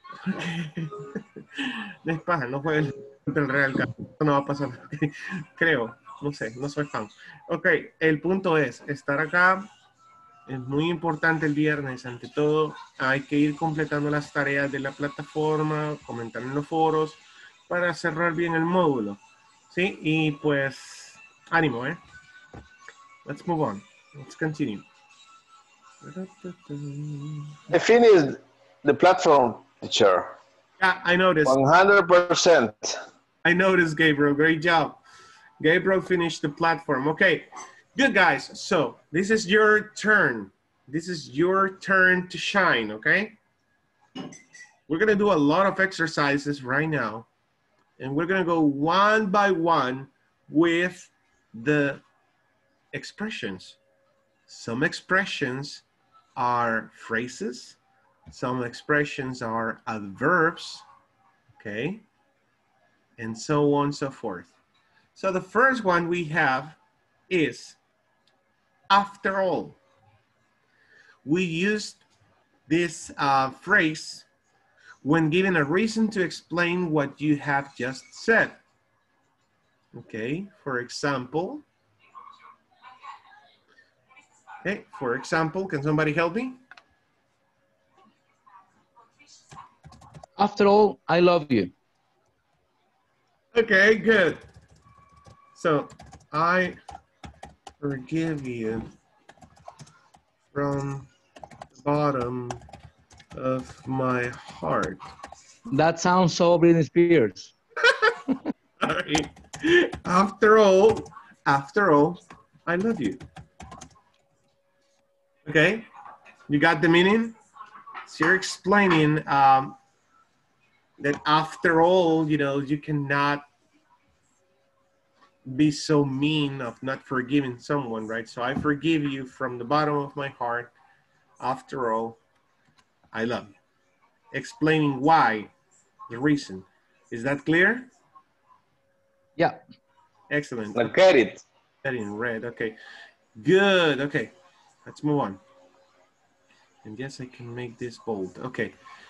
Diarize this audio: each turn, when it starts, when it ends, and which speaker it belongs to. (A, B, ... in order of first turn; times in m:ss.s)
0:00.2-0:09.7 A
0:10.5-0:22.0 A
0:23.2-0:24.8 A
0:26.0-0:27.6 A
0:27.7-0:30.3 B
0:30.8-0:31.6 A
0:31.4-0:33.0 B
0:33.4-0:35.0 A
0:35.6-0:43.4 A
0:44.9-0:47.3 A
0:48.0-0:52.0 A
0:52.9-0:53.8 A
0:54.5-0:55.8 A
0:56.4-0:57.8 A
0:58.3-1:00.8 A
1:01.6-1:02.0 A
1:03.2-1:04.5 A
1:05.2-1:07.8 A
1:08.9-1:09.8 A
1:11.2-1:12.0 A
1:12.7-1:14.2 A
1:15.0-1:18.6 A
1:19.9-1:21.6 A
1:24.6-1:26.6 A
1:30.4-1:31.7 C
1:33.5-1:34.4 A
1:35.5-1:36.8 A
1:37.8-1:38.9 A
1:40.5-1:41.1 A
1:41.8-1:42.6 A
1:43.3-1:45.0 A
1:45.7-1:47.5 C
1:48.8-1:53.2 A
1:55.4-1:55.9 A
1:56.5-1:57.4 A
1:58.0-1:59.8 A
2:01.0-2:03.5 A
2:05.5-2:10.7 A
2:11.4-2:12.2 A
2:13.1-2:13.5 A
2:14.3-2:15.5 A
2:16.1-2:17.9 A
2:20.3-2:20.9 A
2:20.8-2:21.4 B
2:21.8-2:22.8 A
2:23.4-2:24.3 A
2:24.8-2:25.4 A
2:26.8-2:28.7 A